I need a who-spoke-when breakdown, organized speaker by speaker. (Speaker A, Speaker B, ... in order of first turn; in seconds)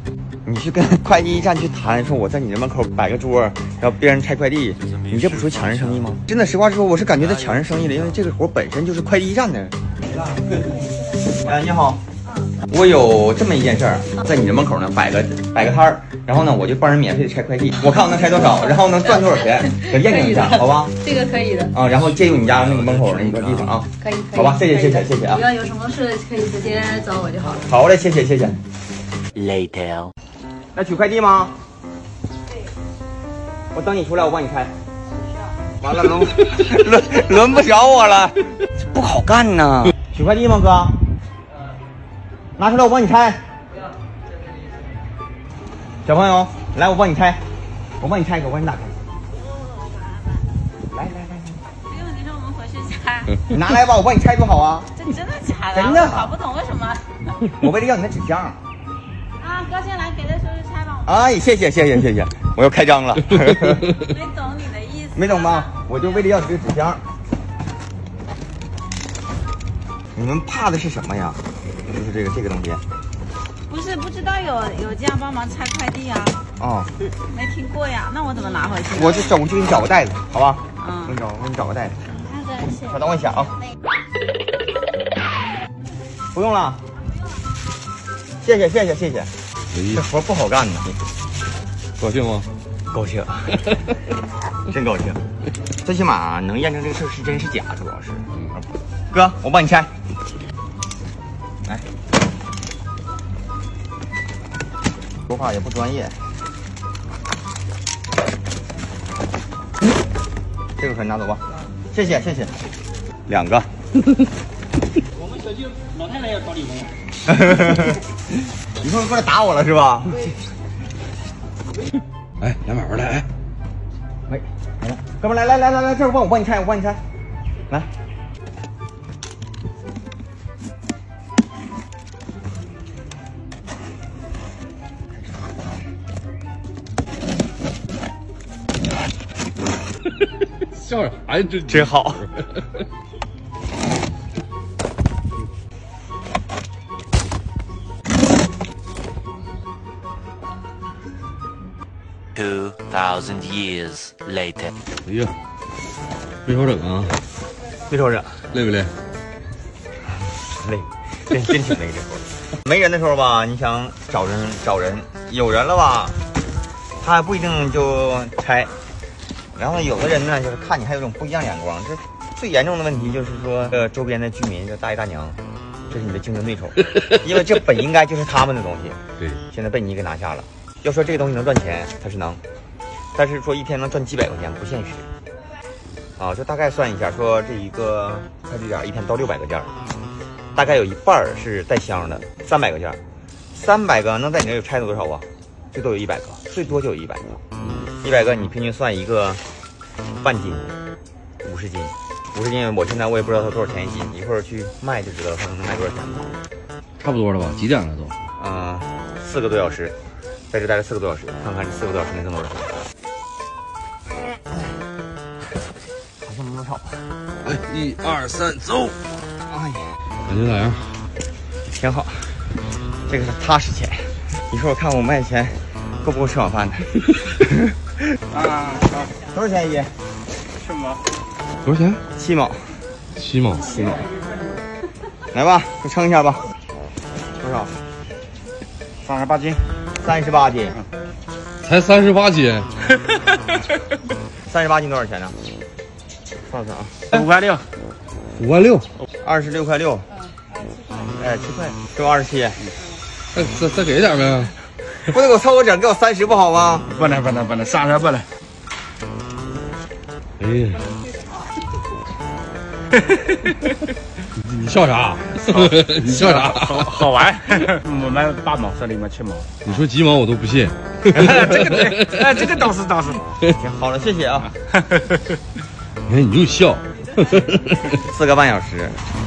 Speaker A: 0.5-9.7, 11.3-12.0, 12.7-20.9, 21.7-25.4, 27.7-28.6, 30.7-31.5, 33.7-34.7, 35.8-41.0, 42.6-43.4, 46.0-47.4, 48.0-49.0, 50.9-51.5, 53.5-54.9, 55.7-56.3, 57.5-58.6, 61.0-63.9, 65.1-67.0, 70.1-72.8, 76.6-76.9, 78.9-82.0, 82.7-83.5, 86.3-86.8, 88.4-89.3, 89.9-91.0, 92.9-93.7, 94.7-95.2, 95.8-99.9, 105.3-106.2, 110.8-112.5, 113.3-113.7, 117.2-118.0, 118.8-120.3, 124.3-127.0, 135.1-135.7, 141.7-142.2, 157.9-158.5, 160.5-166.2, 167.0-168.7, 169.6-179.0, 179.5-182.4, 183.1-185.1, 186.2-189.7, 190.5-193.0, 193.5-197.4, 198.0-199.4, 200.2-200.7, 201.4-206.3, 208.4-209.9, 210.5-212.7, 216.2-217.1, 219.5-219.9, 221.7-222.4, 223.1-227.7, 229.3-229.9, 232.1-232.6, 233.6-234.1, 235.3-236.4, 237.4-237.7, 240.0-240.8, 244.5-245.3, 246.5-247.0, 249.2-250.1, 251.2-252.6, 255.0-256.9, 273.6-274.5, 277.8-279.0
Speaker B: 19.6-21.7, 24.0-27.7
Speaker C: 22.1-23.7, 89.7-90.0, 92.0-92.5, 122.4-123.2, 140.7-142.2, 155.0-155.3, 156.4-157.2, 158.5-158.9, 207.0-208.2, 217.4-219.0, 220.2-220.9, 231.6-232.0, 233.2-233.7, 241.6-242.7, 248.3-248.9, 253.3-254.5, 260.4-260.8, 264.4-266.9, 269.6-272.2, 276.1-277.7
Speaker D: 29.3-30.1, 152.3-154.7
Speaker E: 49.3-50.5, 51.9-53.4, 54.9-57.1, 59.4-61.3, 63.9-66.2, 73.7-76.4, 77.2-79.3, 80.8-81.2, 82.2-82.7
Speaker F: 115.2-116.9, 228.3-229.1, 230.6-231.0, 239.0-239.6, 247.1-247.6, 256.9-258.3, 265.5-269.6, 271.1-273.2